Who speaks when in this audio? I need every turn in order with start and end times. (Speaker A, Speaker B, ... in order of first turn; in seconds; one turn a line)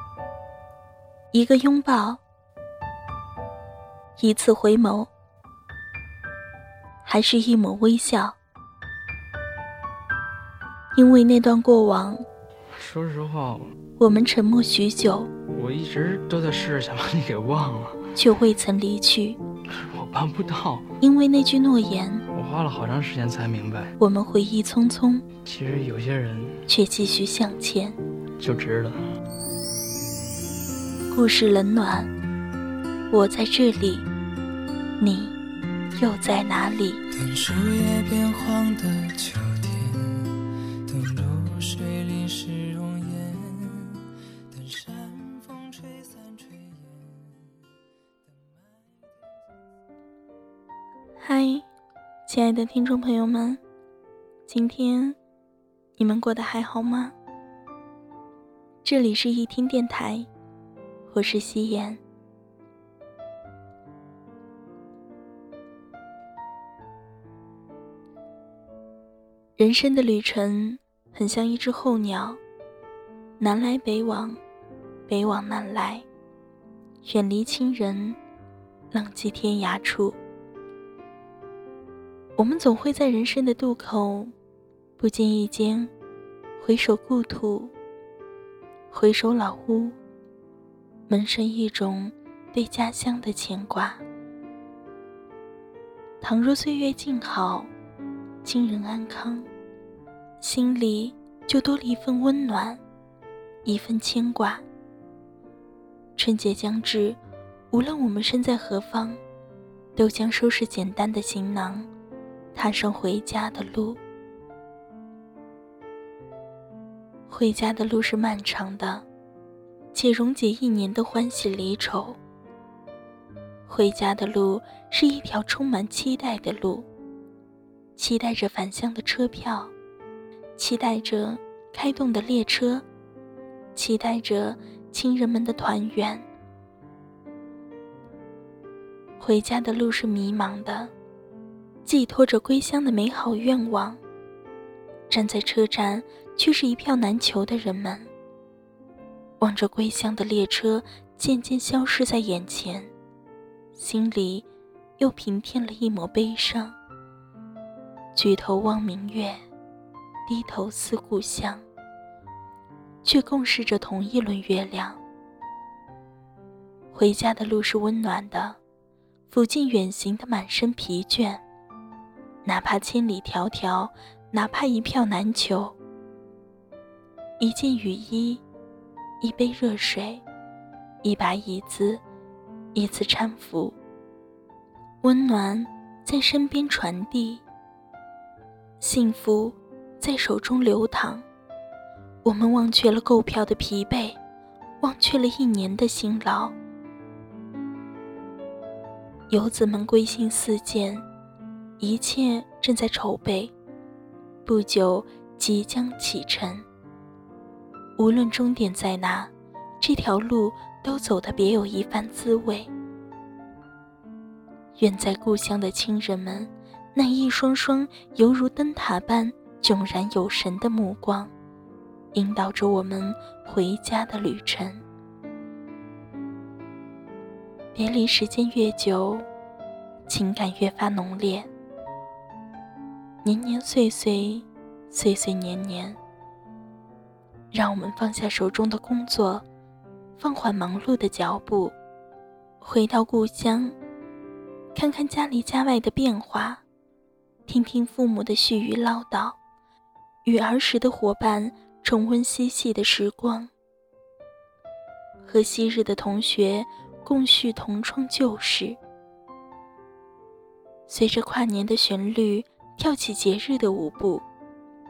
Speaker A: 1.3-2.2
Speaker A: 4.2-5.1
Speaker A: 7.0-8.4
Speaker A: 10.9-12.2
Speaker B: 12.7-13.7
Speaker A: 14.0-15.3
Speaker B: 15.4-18.1
Speaker A: 18.1-19.4
Speaker B: 19.6-20.9
Speaker A: 21.0-22.2
Speaker B: 22.3-23.9
Speaker A: 24.0-25.3
Speaker B: 25.4-26.6
Speaker A: 26.7-28.0
Speaker B: 28.4-29.0
Speaker A: 31.1-32.1
Speaker A: 33.1-34.1
Speaker A: 35.0-35.4
Speaker A: 36.0-37.0
Speaker C: 37.1-47.2
Speaker A: 51.2-51.6
Speaker A: 52.3-53.6
Speaker A: 54.5-55.2
Speaker A: 56.0-57.1
Speaker A: 58.8-60.3
Speaker A: 61.1-62.0
Speaker A: 69.6-72.4
Speaker A: 73.4-74.4
Speaker A: 75.1-76.0
Speaker A: 77.0-78.2
Speaker A: 78.9-80.2
Speaker A: 82.4-84.3
Speaker A: 85.0-85.9
Speaker A: 86.6-87.7
Speaker A: 88.9-90.0
Speaker A: 91.1-94.0
Speaker A: 96.2-97.7
Speaker A: 98.4-99.5
Speaker A: 100.4-102.8
Speaker A: 103.6-104.6
Speaker A: 106.2-107.2
Speaker A: 107.7-109.2
Speaker A: 110.0-111.9
Speaker A: 112.5-114.0
Speaker A: 117.3-119.0
Speaker A: 119.9-122.2
Speaker A: 123.7-126.9
Speaker A: 128.0-129.7
Speaker A: 130.6-132.8
Speaker A: 133.7-136.2
Speaker A: 139.2-140.9
Speaker A: 141.8-144.0
Speaker A: 145.1-148.1
Speaker A: 149.4-152.9
Speaker A: 153.7-154.4
Speaker A: 155.0-156.8
Speaker A: 158.1-159.4
Speaker A: 160.2-161.6
Speaker A: 163.0-165.0
Speaker A: 166.9-168.6
Speaker A: 169.3-171.4
Speaker A: 172.4-175.8
Speaker A: 177.4-178.4
Speaker A: 179.2-180.2
Speaker A: 181.0-182.0
Speaker A: 182.7-183.8
Speaker A: 185.0-187.4
Speaker A: 188.8-191.2
Speaker A: 192.2-194.2
Speaker A: 194.8-196.5
Speaker A: 199.3-201.0
Speaker A: 201.8-203.5
Speaker A: 204.4-206.7
Speaker A: 208.0-212.7
Speaker A: 214.8-221.3
Speaker A: 222.1-224.8
Speaker A: 227.7-229.3
Speaker A: 230.1-231.5
Speaker A: 233.2-236.0
Speaker A: 237.5-239.4
Speaker A: 240.2-241.7
Speaker A: 242.6-243.7
Speaker A: 244.7-246.6
Speaker A: 247.5-249.4
Speaker A: 250.2-253.5
Speaker A: 255.2-258.8
Speaker A: 260.9-264.2